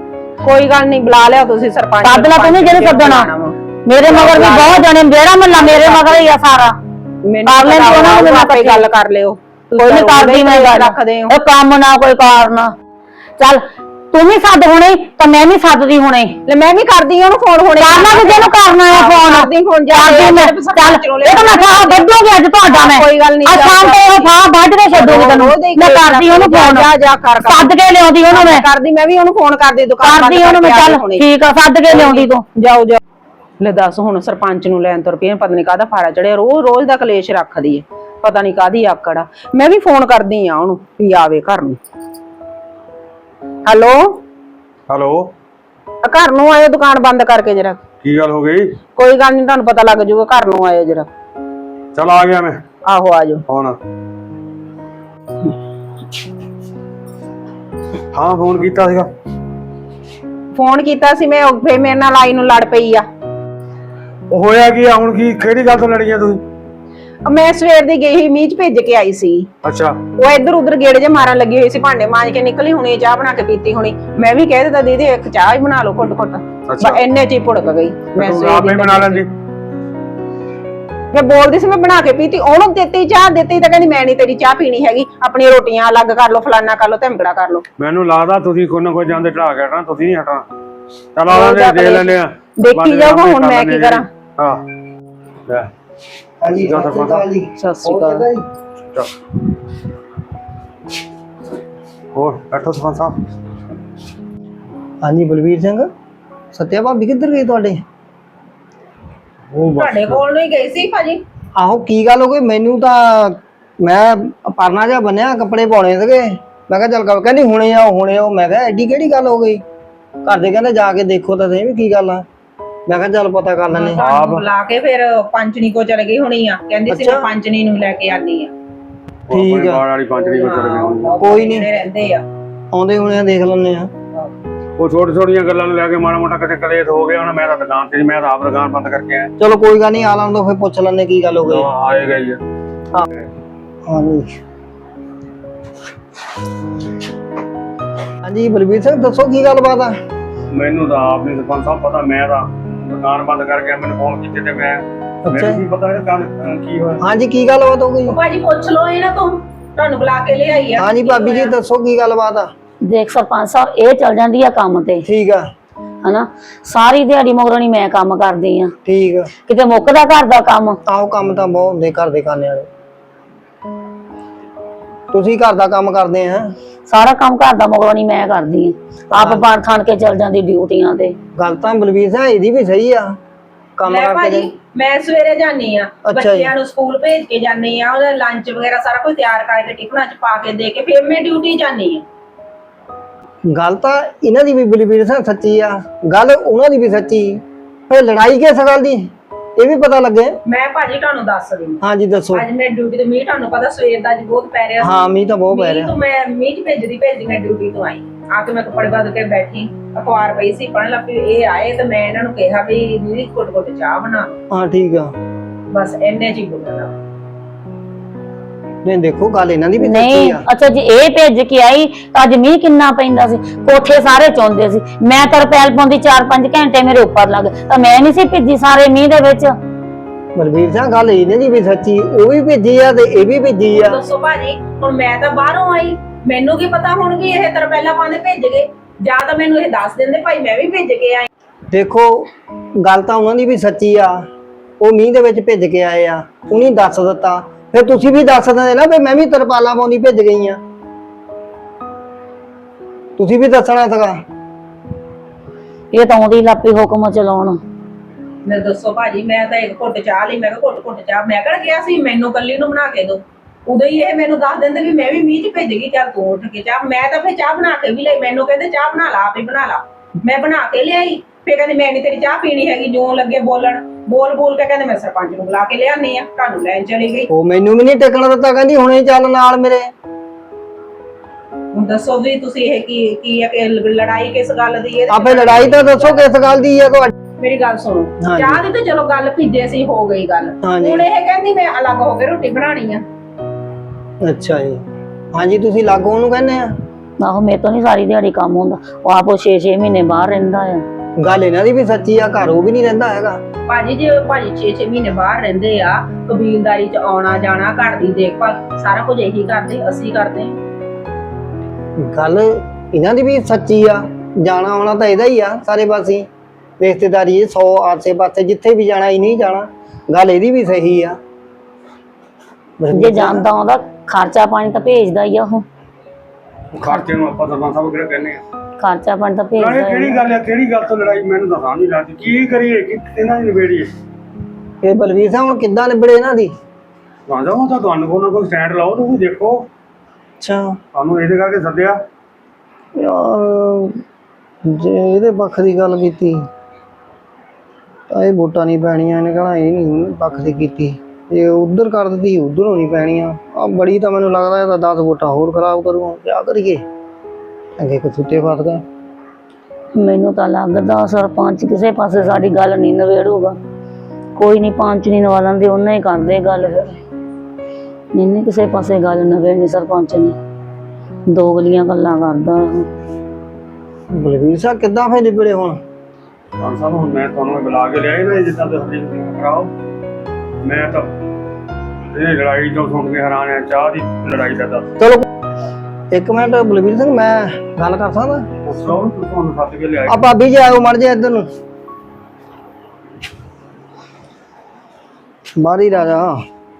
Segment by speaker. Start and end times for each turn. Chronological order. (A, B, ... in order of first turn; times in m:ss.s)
0:00.4-0:04.9 A
0:02.0-0:03.3 B
0:03.8-0:06.8 B
0:05.5-0:06.3 A
0:07.2-0:11.3 A
0:07.4-0:08.9 B
0:09.8-0:12.7 B
0:13.4-0:16.4 B
0:16.4-0:22.1 A
0:17.8-0:26.9 B
0:22.6-0:24.3 A
0:24.9-0:31.2 A
0:27.4-0:28.6 B
0:30.0-0:32.4 B
0:31.9-0:33.0 A
0:33.6-0:41.8 A
0:43.6-0:44.2 A
0:44.9-0:45.3 C
0:46.0-0:47.8 A
0:48.0-0:48.8 C
0:49.0-0:51.1 A
0:51.9-0:52.6 C
0:52.8-0:53.4 A
0:53.5-0:53.8 C
0:58.1-0:59.1 C
1:00.5-1:03.0 A
1:04.3-1:06.4 C
1:07.2-1:09.5 A
1:09.6-1:10.0 C
1:10.2-1:19.2 A
1:16.7-1:17.0 C
1:18.2-1:19.3 C
1:21.1-1:27.6 A
1:27.8-1:30.5 C
1:31.1-1:34.6 C
1:31.3-1:34.1 A
1:36.4-1:38.4 D
1:36.5-1:37.2 C
1:37.6-1:38.2 A
1:42.1-1:43.2 C
1:45.0-1:45.9 D
1:46.5-1:47.8 D
1:49.5-1:50.2 C
1:49.8-1:51.2 A
1:51.6-1:59.6 D
2:00.2-2:02.2 D
2:02.9-2:04.0 D
2:03.7-2:08.5 A
2:04.0-2:04.4 C
2:06.9-2:07.2 D
2:09.3-2:11.2 C
2:09.3-2:09.8 D
2:10.1-2:12.2 A
2:11.2-2:11.7 D
2:12.7-2:13.9 D
2:14.8-2:19.3 C
2:19.4-2:21.7 D
2:21.4-2:22.4 C
2:23.8-2:24.4 D
2:28.2-2:29.9 D
2:30.5-2:37.0 C
2:35.3-2:35.6 D
2:37.0-2:38.2 D
2:38.1-2:41.5 A
2:40.8-2:42.5 D
2:42.8-2:45.0 B
2:45.0-2:45.5 D
2:46.0-2:48.7 B
2:48.8-2:49.3 D
2:49.4-2:50.8 B
2:50.9-2:52.7 D
2:55.1-2:56.5 D
2:56.8-3:01.1 B
2:59.1-2:59.4 D
3:01.4-3:03.2 D
3:03.8-3:04.5 D
3:03.8-3:12.0 A
3:06.0-3:06.5 D
3:13.5-3:20.4 D
3:20.4-3:21.8 A
3:21.8-3:22.4 D
3:22.3-3:25.0 A
3:24.8-3:25.9 D
3:25.5-3:34.4 A
3:34.5-3:35.1 D
3:35.7-3:36.9 A
3:38.8-3:40.4 D
3:39.8-3:49.5 B
3:50.4-3:54.0 D
3:53.7-4:01.3 A
4:01.7-4:02.3 D
4:02.8-4:04.2 D
4:04.8-4:10.6 D
4:13.2-4:14.2 D
4:15.9-4:17.6 B
4:18.4-4:37.3 A
4:37.3-4:39.9 D
4:41.7-4:46.2 A
4:45.1-4:47.1 D
4:47.4-4:53.0 A
4:48.2-4:48.6 D
4:50.6-4:51.1 D
4:54.2-4:56.7 D
4:57.2-5:00.8 B
5:01.2-5:03.4 D
5:03.7-5:10.6 A
5:12.0-5:16.2 D
5:16.8-5:21.2 D
5:22.8-5:23.4 D
5:22.9-5:25.6 B
5:26.8-5:28.4 C
5:26.8-5:27.1 B
5:28.8-5:30.2 B
5:29.6-5:33.9 C
5:34.8-5:36.5 D
5:37.3-5:39.7 C
5:40.4-5:40.8 D
5:40.9-5:42.0 C
5:43.0-5:44.0 D
5:44.6-5:46.5 D
5:48.1-5:56.8 D
5:57.8-5:58.8 D
6:00.0-6:03.6 B
6:04.4-6:07.0 B
6:08.1-6:10.4 B
6:11.3-6:12.9 B
6:14.1-6:15.8 D
6:16.6-6:19.7 C
6:20.6-6:21.1 C
6:22.1-6:24.9 C
6:25.0-6:25.2 D
6:26.1-6:28.5 D
6:28.6-6:30.2 C
6:30.1-6:31.5 D
6:35.6-6:36.4 D